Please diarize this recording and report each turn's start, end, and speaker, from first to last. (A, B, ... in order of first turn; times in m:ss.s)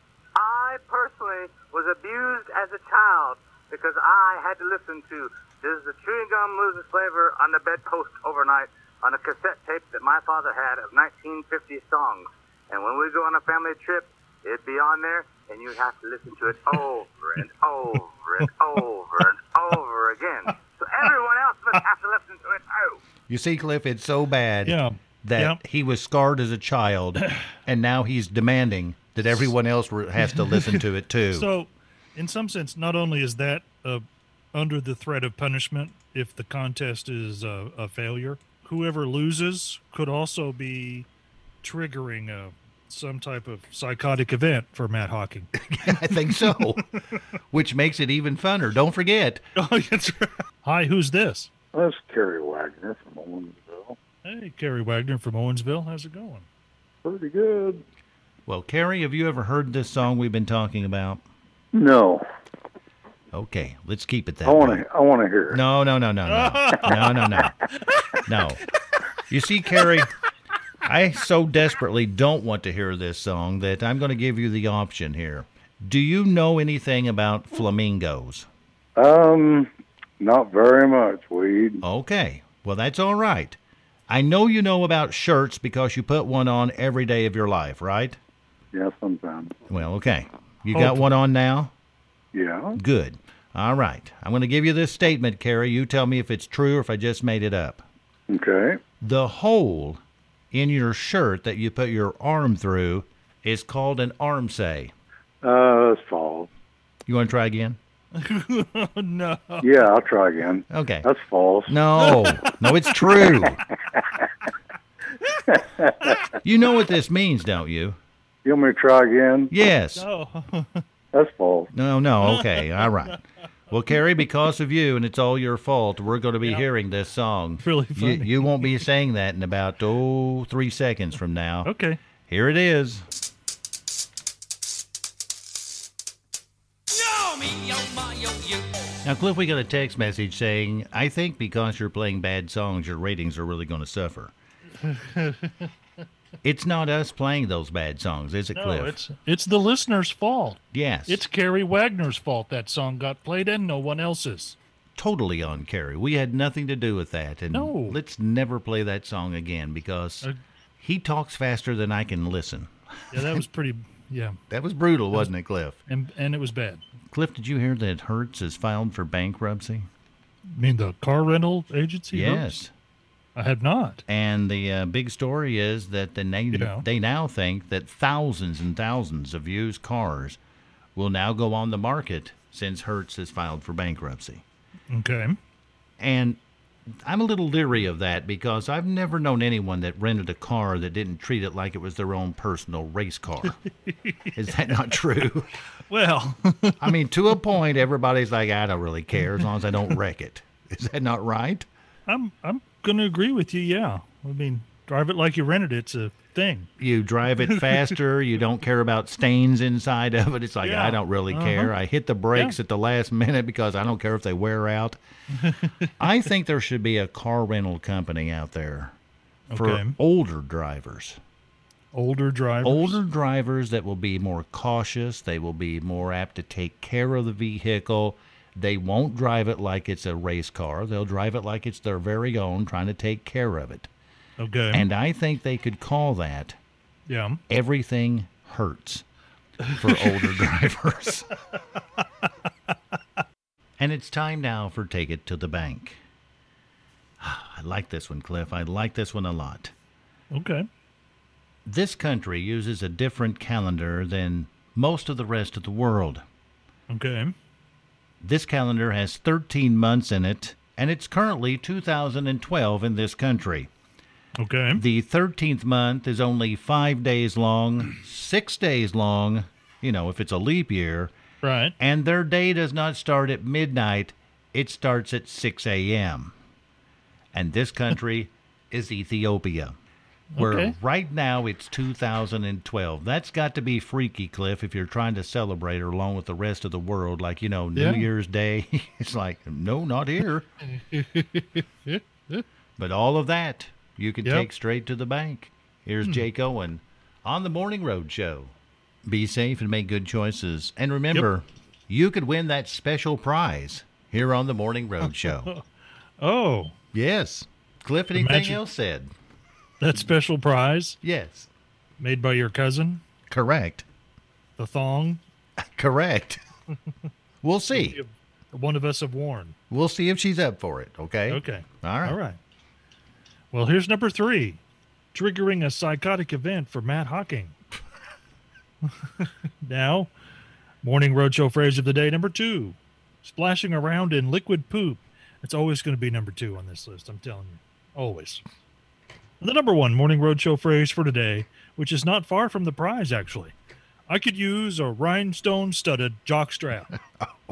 0:00.4-0:23.0 A
0:11.6-0:12.2 B
0:15.3-0:16.4 B
0:18.7-0:19.0 B
0:23.3-0:31.5 B
0:24.6-0:25.6 C
0:30.3-0:41.1 C
0:41.6-0:46.8 C
0:45.6-0:46.8 B
0:47.5-0:49.4 B
0:49.6-0:51.5 C
0:51.7-0:54.0 D
0:54.2-0:56.5 C
0:57.0-0:57.8 D
0:58.5-1:01.2 B
1:01.7-1:02.2 D
1:03.3-1:04.8 B
1:04.4-1:05.6 D
1:05.5-1:07.6 B
1:06.3-1:08.5 C
1:08.3-1:08.6 B
1:09.3-1:10.1 B
1:09.8-1:10.0 C
1:10.8-1:18.5 B
1:19.0-1:21.8 D
1:21.8-1:23.6 B
1:24.1-1:28.2 B
1:28.7-1:29.6 D
1:29.7-1:31.7 B
1:30.7-1:31.1 C
1:32.3-1:32.8 D
1:32.8-1:37.9 B
1:38.3-1:38.8 D
1:39.0-1:44.9 B
1:45.4-1:46.5 D
1:47.1-1:47.8 B
1:48.2-1:49.8 C
1:49.6-1:52.2 D
1:50.7-1:51.1 B
1:51.7-1:53.6 B
1:52.0-1:53.5 C
1:53.5-1:54.0 D
1:55.2-1:56.4 C
1:55.6-1:56.1 D
1:56.4-1:58.0 B
1:58.4-1:59.5 D
1:59.5-2:00.1 B
2:00.0-2:00.8 C
2:01.1-2:01.7 D
2:01.7-2:11.7 B
2:02.2-2:03.1 C
2:06.4-2:06.7 C
2:07.6-2:08.8 C
2:11.6-2:12.0 C
2:12.3-2:13.1 B
2:17.0-2:18.5 A
2:19.0-2:24.3 B
2:24.8-2:25.7 C
2:26.4-2:29.0 B
2:28.6-2:34.6 C
2:30.7-2:31.2 B
2:35.0-2:40.3 B
2:37.5-2:38.0 C
2:40.8-2:43.4 B
2:43.1-2:44.4 C
2:44.5-2:45.8 B
2:45.9-2:46.8 C
2:47.1-2:49.9 B
2:50.6-2:52.5 C
2:52.1-2:52.7 B
2:53.4-2:54.0 C
2:54.1-3:00.4 B
2:56.5-2:56.8 C
3:01.0-3:04.4 B
3:04.9-3:05.4 C
3:06.0-3:06.4 B
3:07.0-3:13.6 B
3:13.5-3:14.8 C
3:14.3-3:15.5 B
3:15.9-3:17.0 C
3:16.8-3:21.7 B
3:22.1-3:26.7 C
3:26.8-3:35.0 B
3:27.5-3:27.9 C
3:30.6-3:31.7 C
3:35.4-3:35.9 C
3:36.0-3:39.0 B
3:39.5-3:40.0 C
3:39.6-3:41.2 B
3:41.9-3:43.0 C
3:42.6-3:53.9 B
3:54.4-3:54.9 C
3:54.7-3:56.6 B
3:57.1-3:57.4 C
3:57.5-3:59.0 B
3:59.7-4:00.2 C
3:59.8-4:01.3 B
4:03.8-4:06.0 B
4:07.2-4:09.7 B
4:10.3-4:10.7 C
4:11.7-4:16.2 B
4:16.9-4:17.3 C
4:18.2-4:23.7 B
4:24.4-4:24.8 C
4:24.8-4:31.1 B
4:31.4-4:31.8 C
4:31.8-4:36.3 B
4:37.3-4:39.7 B
4:40.4-4:40.8 C
4:40.4-4:50.5 B
4:47.8-4:48.1 C
4:50.7-4:52.4 C
4:52.8-4:58.5 B
4:59.1-5:05.5 B
5:05.0-5:05.6 C
5:06.2-5:06.8 C
5:06.9-5:09.1 B
5:08.2-5:08.6 C
5:09.8-5:11.0 C
5:11.0-5:11.5 B
5:12.0-5:13.0 C
5:13.3-5:13.9 B
5:14.6-5:15.2 C
5:15.6-5:16.4 B
5:17.4-5:18.0 B
5:17.7-5:19.6 C
5:19.7-5:22.2 B
5:21.3-5:22.4 C
5:23.5-5:24.6 C
5:25.1-5:27.6 C
5:29.2-5:30.1 C
5:30.8-5:38.4 C
5:39.4-5:43.5 C
5:44.1-5:47.0 C